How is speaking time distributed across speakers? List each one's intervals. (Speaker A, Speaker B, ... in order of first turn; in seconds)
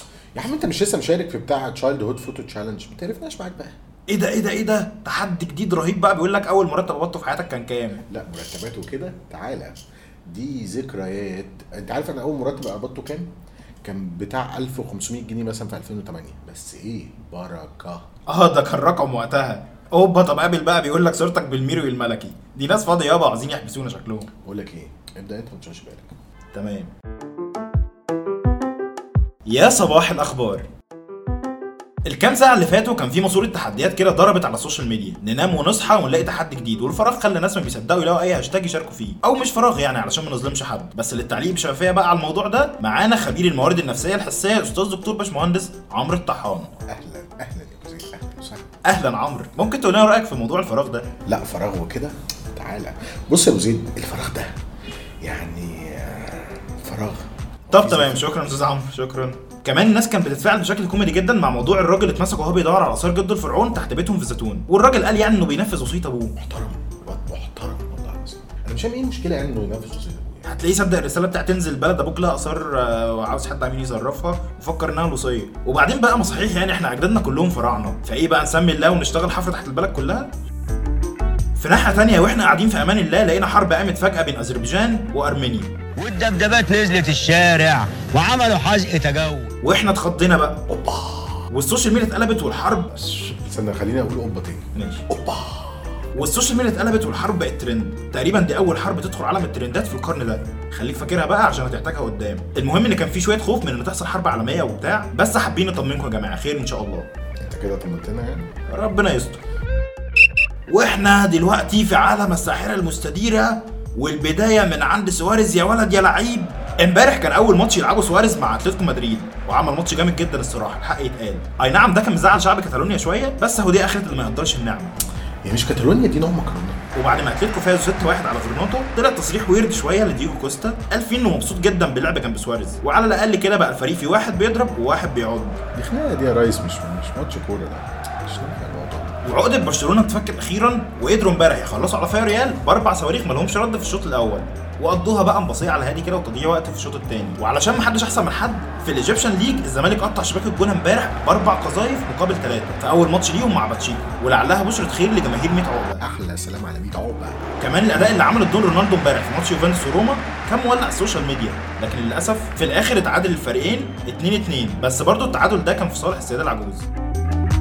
Speaker A: 0.4-3.7, 8.1-13.3, 13.8-18.1, 24.4-26.1, 46.9-48.7, 51.2-54.5, 55.2-58.3, 66.4-70.5, 90.7-91.5, 92.9-96.0, 107.4-108.5, 125.5-126.8, 135.7-139.2, 156.0-157.4
Speaker B: 4.1-8.0, 18.3-24.3, 26.5-26.9, 29.5-30.7, 32.1-46.7, 48.9-51.1, 57.7-66.3, 70.5-80.3, 81.6-85.7, 89.6-90.6, 91.5-92.9, 94.8-95.1, 96.2-107.1, 108.7-109.4, 110.7-124.9, 127.0-135.6, 139.2-156.0, 157.6-166.9
Speaker C: 86.0-89.5